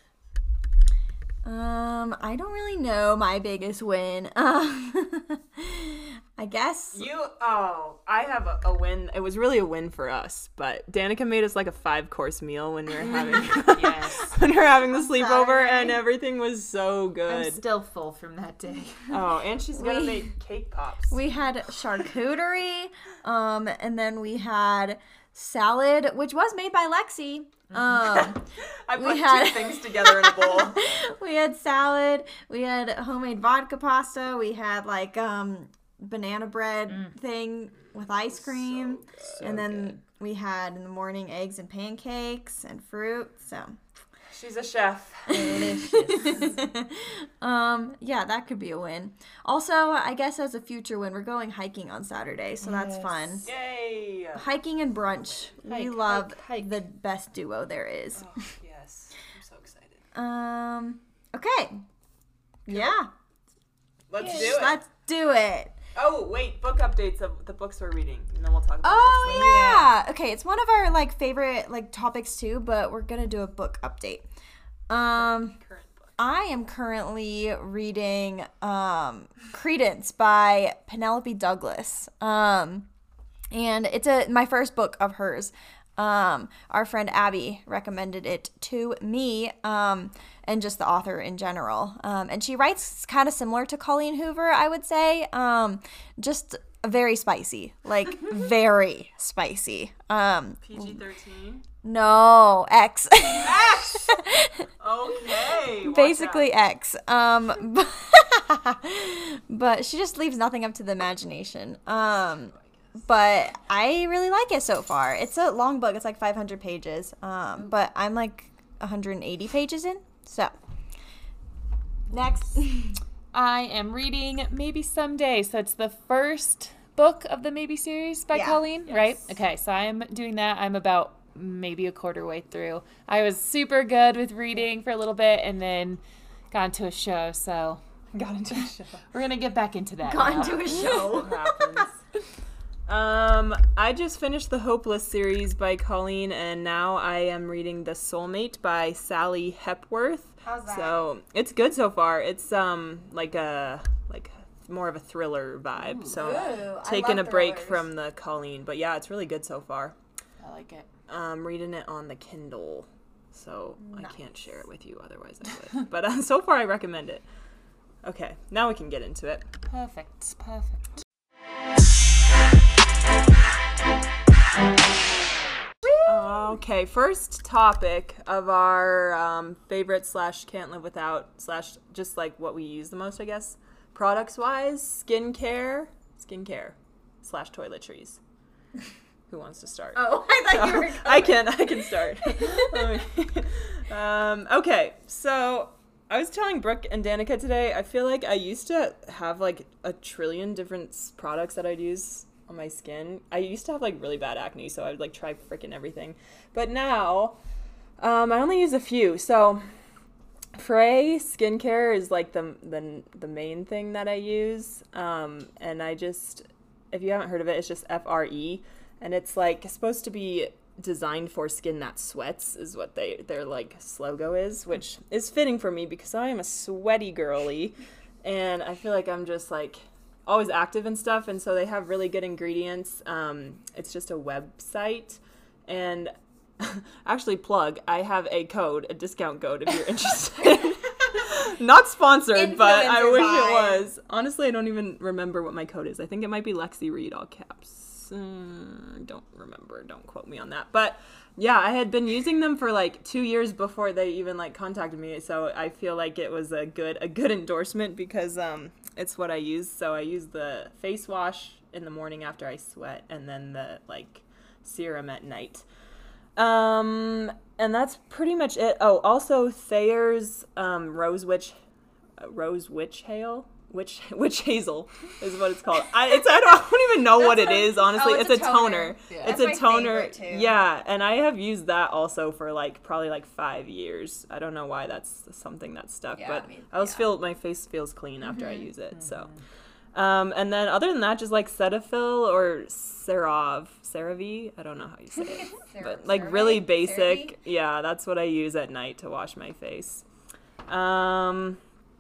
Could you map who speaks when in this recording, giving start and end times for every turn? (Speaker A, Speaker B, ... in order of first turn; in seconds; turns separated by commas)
Speaker A: 1.4-7.1, Speaker B: 6.9-17.6, Speaker C: 13.1-14.4, Speaker A: 14.9-16.0, Speaker C: 17.3-19.2, Speaker B: 19.1-21.2, Speaker A: 19.7-20.3, Speaker A: 21.1-28.4, Speaker C: 27.7-28.0, Speaker B: 28.1-31.0, Speaker A: 29.0-43.8, Speaker B: 37.9-40.0, Speaker B: 44.3-45.7, Speaker A: 45.3-53.5, Speaker C: 45.3-46.5, Speaker C: 52.6-53.4, Speaker B: 53.4-54.5, Speaker A: 54.4-58.4, Speaker C: 55.7-56.8, Speaker B: 58.1-60.0, Speaker A: 60.1-61.8, Speaker A: 62.7-63.1, Speaker B: 64.1-64.8, Speaker C: 64.2-64.6, Speaker A: 64.2-65.7, Speaker B: 66.0-69.9, Speaker A: 68.8-74.3, Speaker C: 69.3-69.8, Speaker A: 74.9-75.6, Speaker B: 75.2-76.1, Speaker A: 76.2-82.9, Speaker A: 83.5-101.0, Speaker B: 100.6-101.6, Speaker A: 101.8-104.7, Speaker B: 103.3-104.2, Speaker B: 104.8-106.5, Speaker A: 105.8-120.5, Speaker A: 122.1-123.0, Speaker C: 123.3-137.8, Speaker A: 128.3-128.6, Speaker B: 128.9-129.3, Speaker B: 138.1-139.1, Speaker C: 139.1-141.1, Speaker A: 140.0-141.9, Speaker B: 140.4-142.0, Speaker B: 142.9-160.0, Speaker A: 150.4-151.1, Speaker C: 155.8-156.5, Speaker A: 156.2-157.8, Speaker C: 160.4-160.9, Speaker B: 161.1-167.2, Speaker A: 163.8-164.2, Speaker B: 168.0-169.5, Speaker C: 169.7-170.9, Speaker A: 175.8-176.4, Speaker B: 176.1-188.2, Speaker B: 189.3-207.4, Speaker A: 189.9-193.0, Speaker B: 208.0-209.6, Speaker B: 210.6-265.6, Speaker A: 242.3-243.9, Speaker B: 266.4-271.5, Speaker B: 272.2-289.3, Speaker A: 277.2-280.5, Speaker C: 279.1-279.4, Speaker A: 286.2-287.1, Speaker A: 288.3-288.7, Speaker C: 288.9-289.4, Speaker B: 289.9-300.1, Speaker A: 295.2-297.4, Speaker B: 300.7-301.6